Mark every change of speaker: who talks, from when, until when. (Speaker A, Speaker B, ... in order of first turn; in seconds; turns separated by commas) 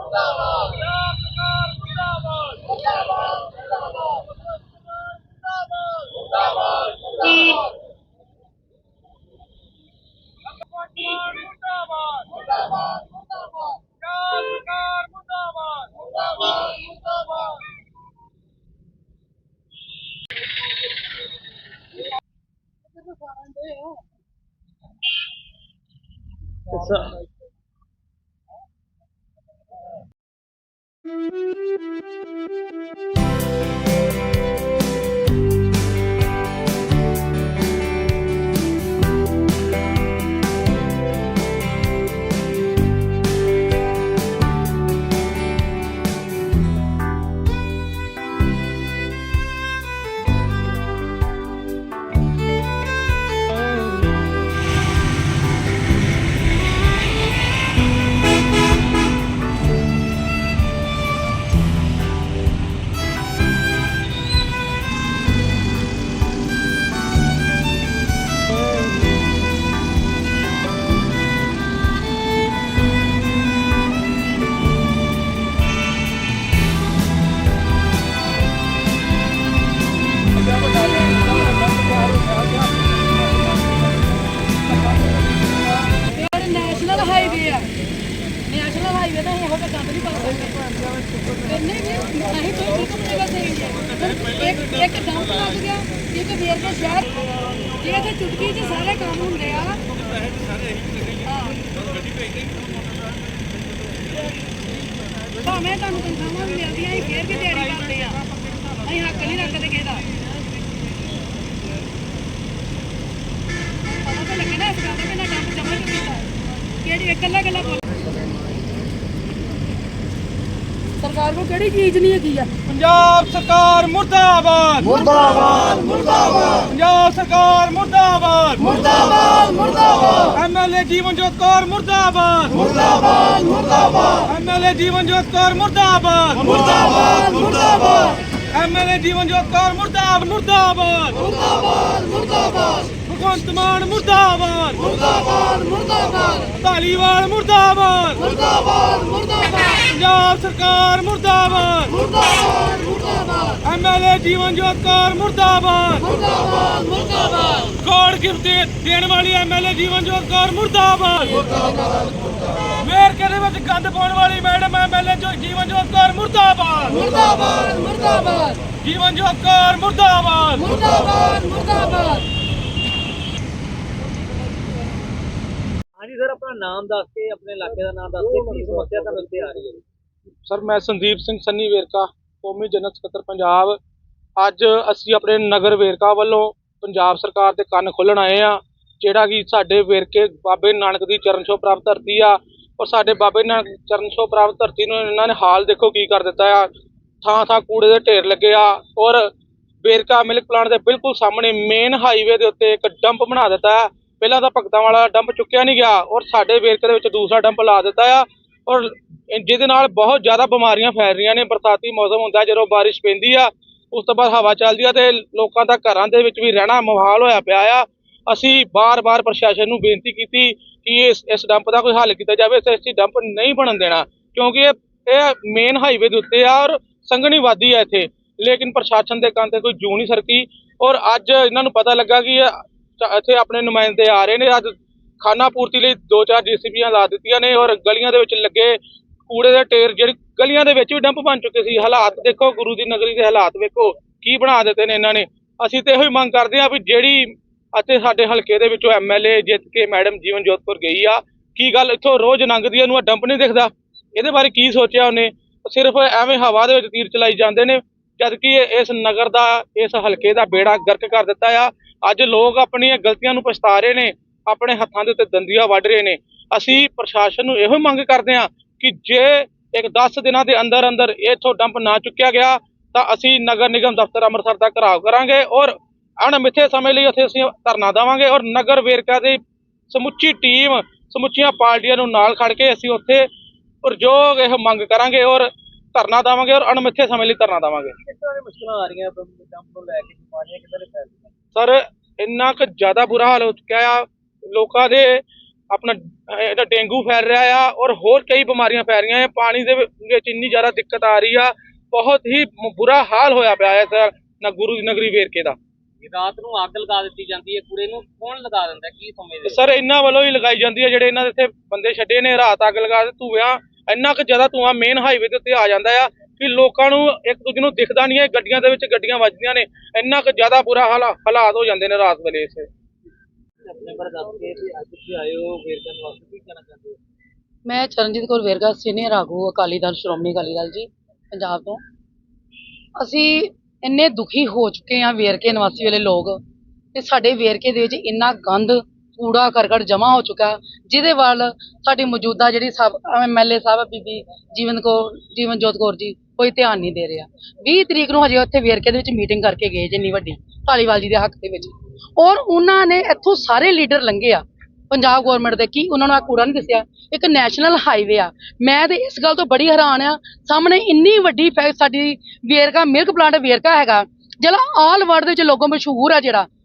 Speaker A: 0.6-2.7, Speaker A: 6.0-6.3, Speaker A: 10.6-12.5, Speaker A: 14.0-16.6, Speaker B: 23.1-24.0, Speaker C: 26.7-27.2, Speaker B: 80.6-81.9, Speaker B: 86.0-87.8, Speaker B: 88.4-90.7, Speaker B: 91.4-99.8, Speaker B: 105.4-108.2, Speaker B: 108.8-110.1, Speaker B: 113.9-118.0, Speaker B: 121.0-122.5, Speaker A: 122.7-129.4, Speaker A: 130.3-145.5, Speaker A: 146.3-148.5, Speaker A: 149.7-152.7, Speaker A: 153.6-156.4, Speaker B: 156.6-156.8, Speaker A: 157.7-161.6, Speaker A: 162.8-167.5, Speaker B: 167.6-168.4, Speaker A: 168.8-171.0, Speaker B: 171.1-172.2, Speaker C: 176.0-179.8, Speaker A: 180.5-183.8, Speaker A: 184.4-196.7, Speaker A: 197.2-199.3, Speaker A: 199.8-283.3, Speaker A: 283.8-287.9, Speaker C: 288.1-291.3, Speaker A: 291.6-305.6, Speaker C: 306.0-309.6, Speaker A: 309.4-322.7, Speaker C: 323.7-327.0, Speaker B: 327.7-331.8, Speaker B: 333.0-336.4, Speaker B: 336.9-366.5